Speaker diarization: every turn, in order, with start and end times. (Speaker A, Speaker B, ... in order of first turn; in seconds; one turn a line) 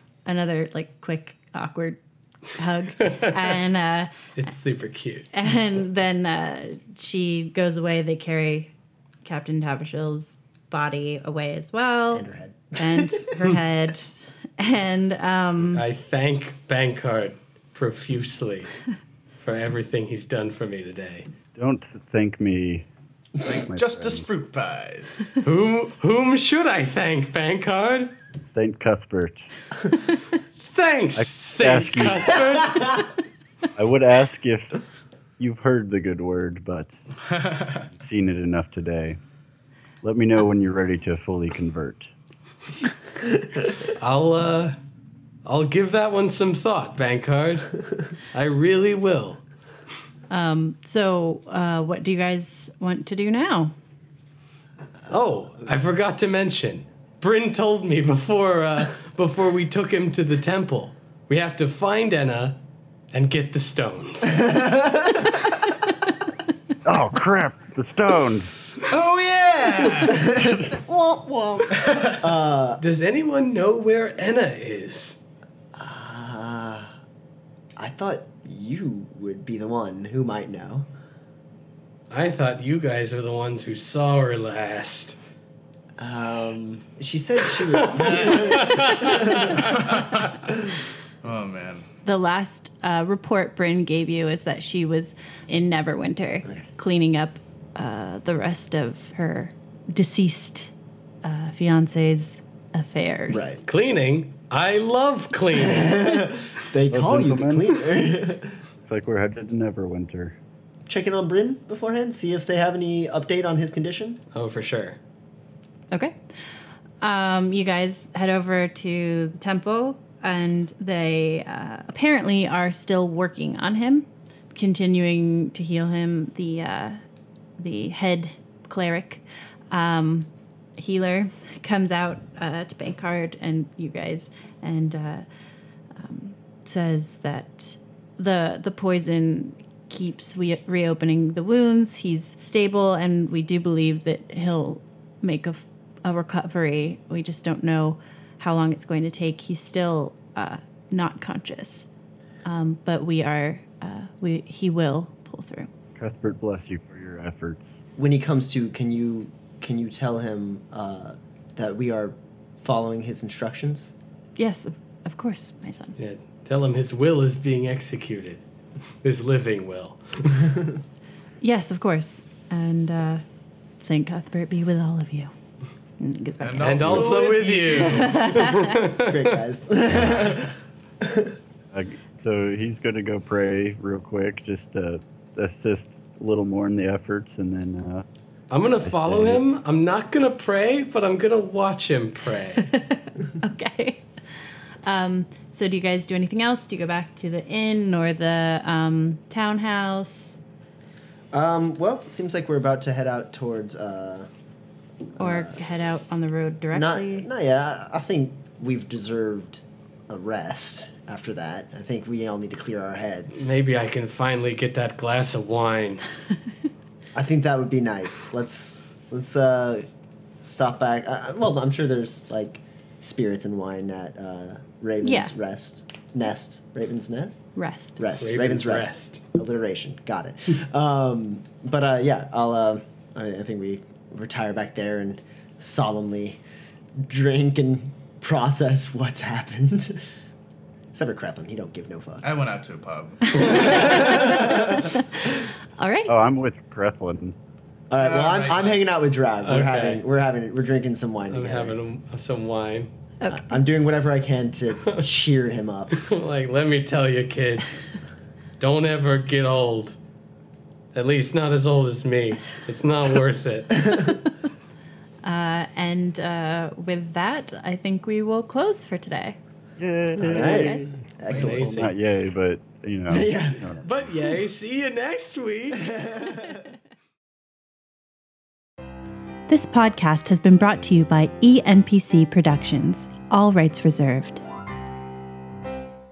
Speaker A: 0.3-4.1
Speaker B: 4.4-5.3
Speaker A: 5.3-8.7
Speaker A: 9.2-12.2
Speaker C: 12.1-13.4
Speaker A: 12.8-15.8
Speaker B: 15.7-18.7
Speaker B: 19.4-21.3
Speaker D: 21.6-22.9
Speaker E: 23.4-25.4
Speaker D: 23.6-24.2
Speaker B: 25.4-28.1
Speaker D: 28.4-29.5
Speaker B: 30.7-33.1
Speaker D: 31.1-32.4
Speaker D: 33.8-34.8
Speaker D: 35.4-37.0
Speaker D: 37.6-39.2
Speaker D: 40.0-42.1
Speaker B: 43.8-44.8
Speaker B: 45.5-49.4
Speaker A: 50.3-53.7
Speaker B: 55.1-62.6
Speaker B: 63.1-64.6
Speaker D: 66.8-68.6
Speaker E: 68.9-70.4
Speaker C: 70.1-72.8
Speaker E: 71.7-72.2
Speaker B: 72.8-75.2
Speaker C: 75.8-77.0
Speaker C: 77.8-80.9
Speaker B: 82.1-85.2
Speaker C: 86.0-89.8
Speaker B: 87.7-89.9
Speaker E: 87.9-88.6
Speaker E: 89.6-90.4
Speaker E: 91.2-91.8
Speaker A: 92.0-100.7
Speaker A: 101.2-103.6
Speaker C: 103.3-103.6
Speaker B: 103.7-106.4
Speaker C: 105.6-108.6
Speaker D: 106.9-107.7
Speaker D: 108.8-110.4
Speaker C: 110.9-114.2
Speaker B: 114.3-115.0
Speaker A: 117.0-127.0
Speaker A: 127.6-135.2
Speaker A: 135.9-151.9
Speaker A: 152.4-155.7
Speaker D: 156.0-157.8
Speaker C: 158.0-163.9
Speaker A: 164.4-166.0
Speaker B: 166.0-168.4
Speaker B: 169.0-170.7
Speaker A: 171.4-173.2
Speaker A: 173.8-175.3
Speaker A: 176.0-178.8
Speaker E: 176.4-178.2
Speaker B: 176.6-179.4
Speaker C: 178.9-181.4
Speaker D: 181.7-188.1
Speaker B: 188.5-192.7
Speaker D: 188.8-189.4
Speaker A: 192.6-194.0
Speaker A: 194.8-200.4
Speaker C: 201.3-204.3
Speaker C: 205.2-205.6
Speaker A: 205.2-207.3
Speaker C: 206.7-213.5
Speaker B: 213.3-216.1
Speaker C: 217.2-219.9
Speaker C: 220.4-227.4
Speaker A: 225.0-225.3
Speaker A: 227.6-228.0
Speaker C: 228.0-236.4
Speaker B: 228.2-229.2
Speaker C: 237.0-240.0
Speaker C: 240.9-242.4
Speaker E: 242.2-244.0
Speaker C: 243.3-244.9
Speaker A: 243.8-244.8
Speaker A: 245.8-246.1
Speaker D: 246.1-247.3
Speaker C: 247.9-251.8
Speaker E: 248.0-248.8
Speaker B: 249.4-250.0
Speaker B: 251.3-252.9
Speaker A: 253.2-253.6
Speaker C: 253.3-256.0
Speaker B: 255.9-257.7
Speaker B: 258.6-260.0
Speaker B: 260.9-264.1
Speaker A: 265.2-269.4
Speaker D: 269.8-273.8
Speaker C: 270.2-271.8
Speaker A: 270.4-270.8
Speaker B: 271.3-271.9
Speaker C: 273.1-273.7
Speaker B: 273.8-276.4
Speaker A: 279.5-284.4